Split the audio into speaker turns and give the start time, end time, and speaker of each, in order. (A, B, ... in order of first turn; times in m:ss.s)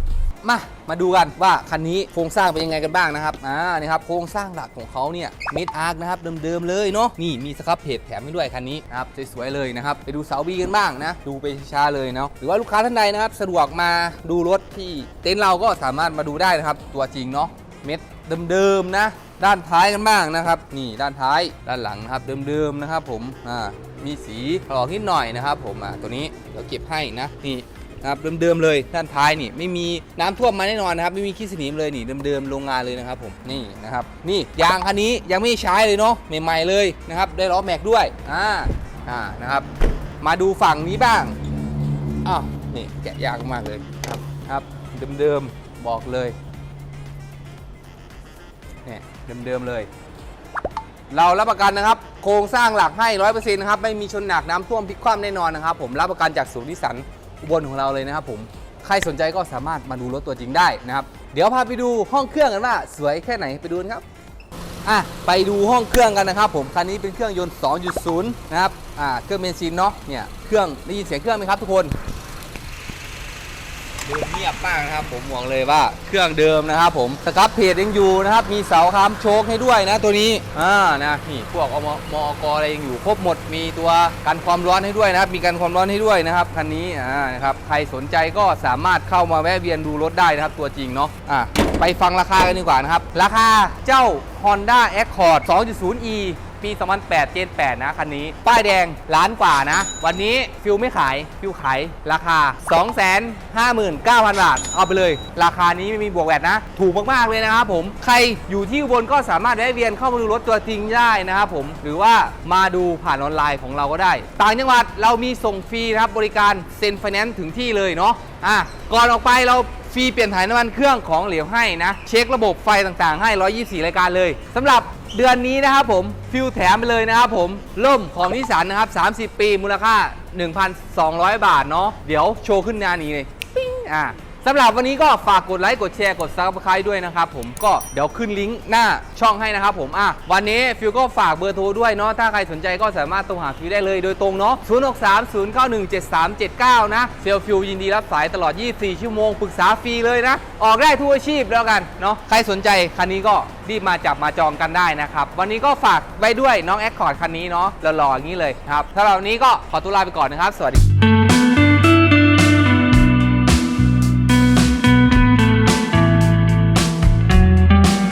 0:00.4-0:39.7 A
0:40.2-0:41.4 A
0:42.2-0:46.4 A
0:48.8-0:49.9 A
0:51.1-1:04.0 A
1:04.8-1:11.9 A
1:14.0-2:40.8 A